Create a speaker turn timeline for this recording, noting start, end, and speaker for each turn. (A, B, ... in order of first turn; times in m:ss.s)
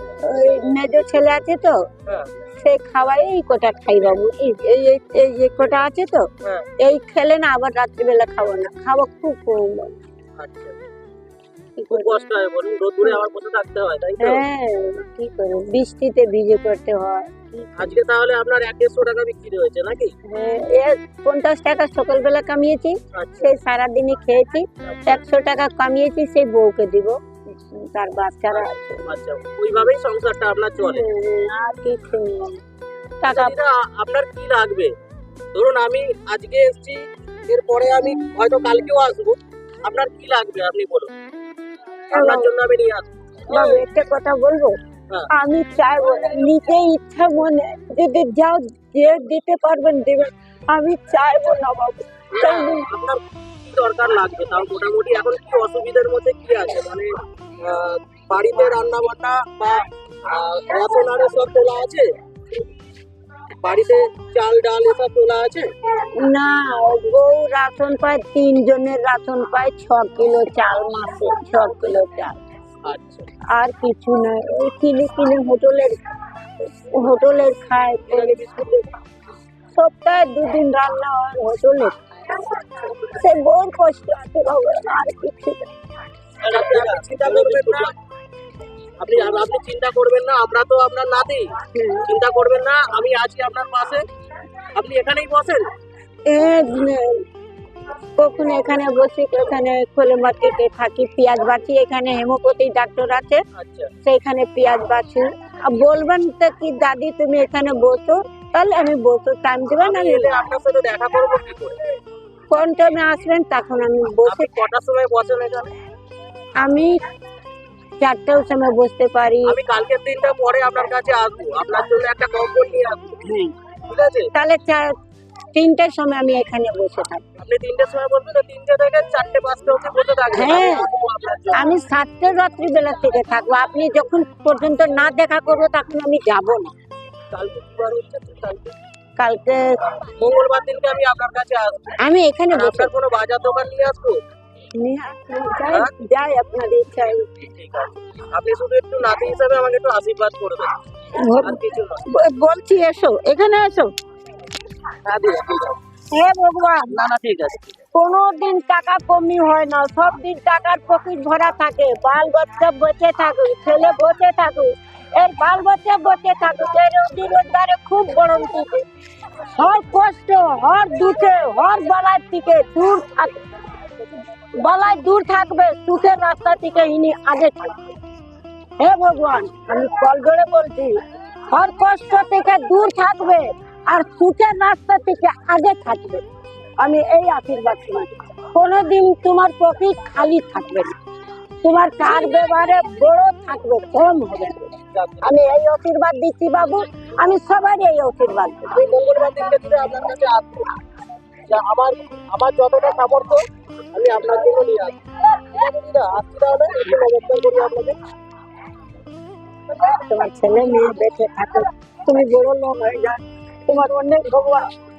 0:00.2-0:01.8 A
0:02.6-0:06.3 A
0:06.4-0:06.7 B
0:06.8-0:10.0 A
0:10.4-0:10.8 B
0:11.8-0:12.2 A
0:11.9-0:14.4 B
0:14.2-0:18.0 A
0:17.8-0:20.1 B
0:20.3-0:29.1 A
0:23.1-0:23.5 B
0:24.8-0:25.2 B
0:28.6-0:31.0 B
0:30.8-0:32.6 A
0:33.2-0:33.5 A
0:33.3-0:34.9 B
0:35.5-0:41.1 B
0:42.1-0:43.8 B
0:42.1-0:42.5 A
0:43.5-0:44.8 A
0:45.3-0:52.9 A
0:52.4-0:57.1 B
0:57.6-1:02.1 B
1:03.6-1:05.7 B
1:06.2-1:12.4 A
1:12.8-1:13.3 B
1:13.5-1:15.9 A
1:16.7-1:18.4 A
1:18.1-1:18.9 B
1:19.7-1:25.7 A
1:26.4-1:27.9 B
1:29.0-1:31.5 B
1:31.7-1:32.0 A
1:32.0-1:34.0 B
1:34.7-1:35.6 B
1:36.2-1:37.2 A
1:38.2-1:43.4 A
1:43.6-1:43.9 B
1:44.0-1:50.3 A
1:49.8-1:51.8 B
1:52.5-1:54.5 A
1:54.2-1:55.7 B
1:56.6-1:57.0 A
1:58.0-1:59.6 A
1:59.4-2:04.3 B
2:04.3-2:04.9 A
2:05.5-2:07.2 A
2:07.4-2:11.8 B
2:10.3-2:10.9 A
2:11.5-2:16.7 A
2:17.3-2:18.7 B
2:19.2-2:19.7 A
2:20.2-2:21.9 B
2:22.0-2:22.9 A
2:22.5-2:24.2 B
2:24.8-2:27.2 A
2:27.4-2:30.7 B
2:31.2-2:33.9 A
2:31.4-2:32.1 B
2:35.0-2:35.8 B
2:36.1-2:36.9 A
2:36.8-2:37.8 B
2:37.9-2:48.8 A
2:49.4-2:53.4 A
2:54.6-2:57.9 A
2:58.8-3:01.0 A
3:01.5-3:06.2 A
3:06.8-3:10.9 A
3:11.6-3:18.7 A
3:14.9-3:15.3 B
3:18.7-3:20.7 B
3:21.5-3:28.0 B
3:29.7-3:34.7 A